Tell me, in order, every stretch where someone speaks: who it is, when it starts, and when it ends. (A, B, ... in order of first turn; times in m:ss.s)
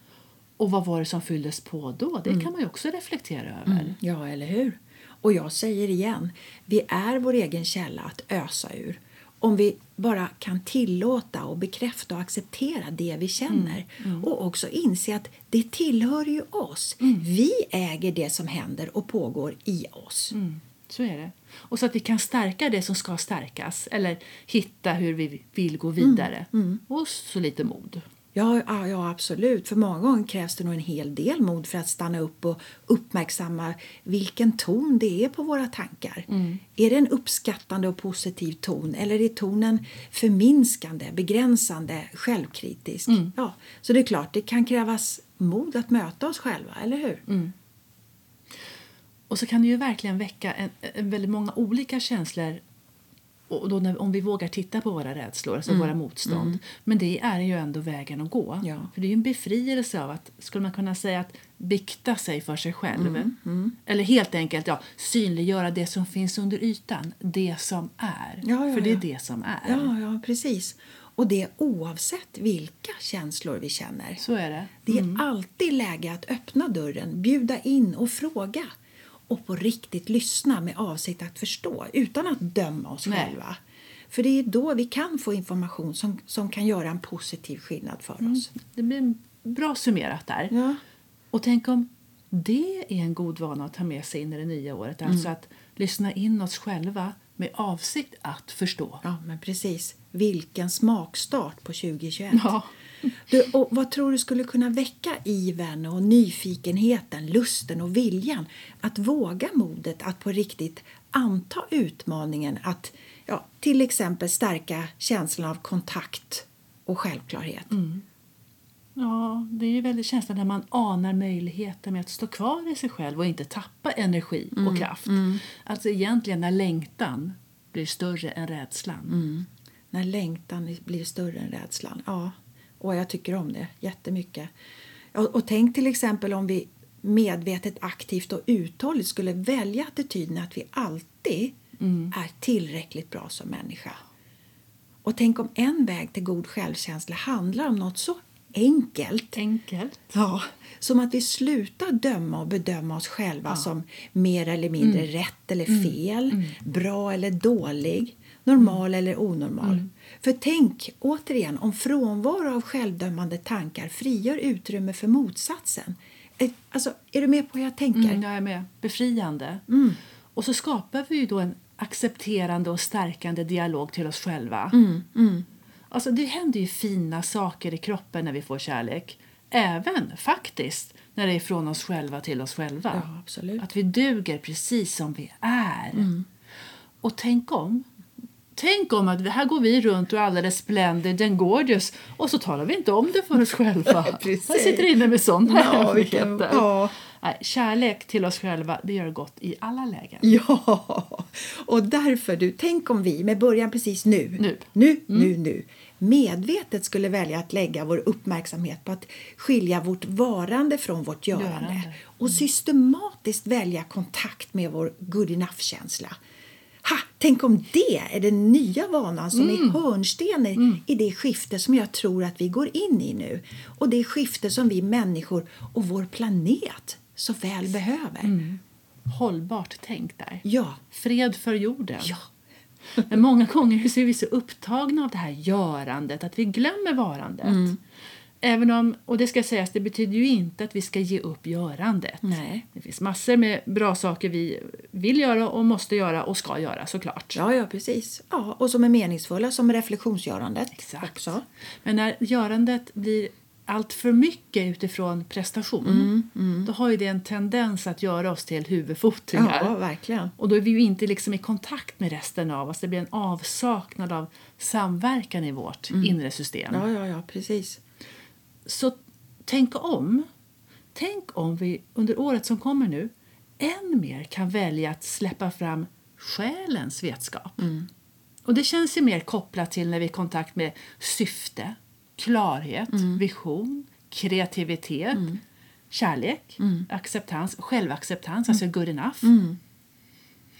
0:00.6-0:04.0 A
0:03.7-0:20.3 B
0:13.5-0:14.3 A
0:17.0-0:17.2 A
0:20.3-0:28.0 A
0:26.0-0:26.8 B
0:28.3-0:47.3 B
0:36.3-0:36.6 A
0:43.1-0:43.3 A
0:47.3-0:47.5 A
0:49.3-0:52.6 A
0:53.5-1:03.3 A
0:55.7-0:56.6 B
0:58.6-0:58.9 B
1:02.9-1:03.8 B
1:03.8-1:09.9 A
1:08.4-1:09.0 B
1:09.6-1:14.2 B
1:14.2-1:15.2 A
1:14.8-1:18.6 B
1:19.3-1:23.6 B
1:23.0-1:23.4 A
1:24.1-1:28.5 B
1:28.2-1:30.5 A
1:30.5-1:30.8 B
1:31.3-1:39.0 A
1:39.0-1:42.5 B
1:42.3-1:42.7 A
1:43.3-1:57.7 B
1:57.7-1:58.0 A
1:59.0-2:09.2 A
2:04.5-2:05.4 B
2:09.1-2:14.5 B
2:15.1-2:21.6 B
2:21.8-2:22.1 A
2:22.1-2:24.0 B
2:25.0-2:29.4 B
2:29.4-2:30.0 A
2:30.1-2:48.2 B
2:35.7-2:36.5 A
2:47.9-2:49.6 A
2:49.7-2:50.0 B
2:50.3-2:54.8 A
2:54.7-2:55.4 B
2:55.9-3:03.1 A
3:02.9-3:03.6 B
3:03.6-3:06.1 A
3:05.9-3:06.2 B
3:07.0-3:07.9 A
3:08.6-3:20.3 A
3:13.8-3:16.9 B
3:20.2-3:36.2 B
3:24.4-3:25.3 A
3:31.3-3:32.4 A
3:36.8-3:48.4 B
3:39.3-3:39.8 A
3:40.6-3:40.8 A
3:48.2-3:52.2 A
3:50.4-3:50.8 B
3:53.0-3:57.7 A
3:57.4-3:57.8 B
3:58.4-4:07.4 A
4:02.2-4:02.6 B
4:07.3-4:11.4 B
4:10.7-4:11.3 A
4:11.8-4:16.1 A
4:15.8-4:16.7 B
4:16.6-4:19.7 A
4:19.3-4:20.3 B
4:20.4-4:26.8 A
4:26.7-4:27.8 B
4:28.6-4:30.3 A
4:30.9-4:37.6 A
4:37.6-4:37.9 B
4:38.4-4:45.4 A
4:42.9-4:43.2 B
4:45.9-4:49.3 A
4:46.6-4:46.9 B
4:49.2-4:49.6 B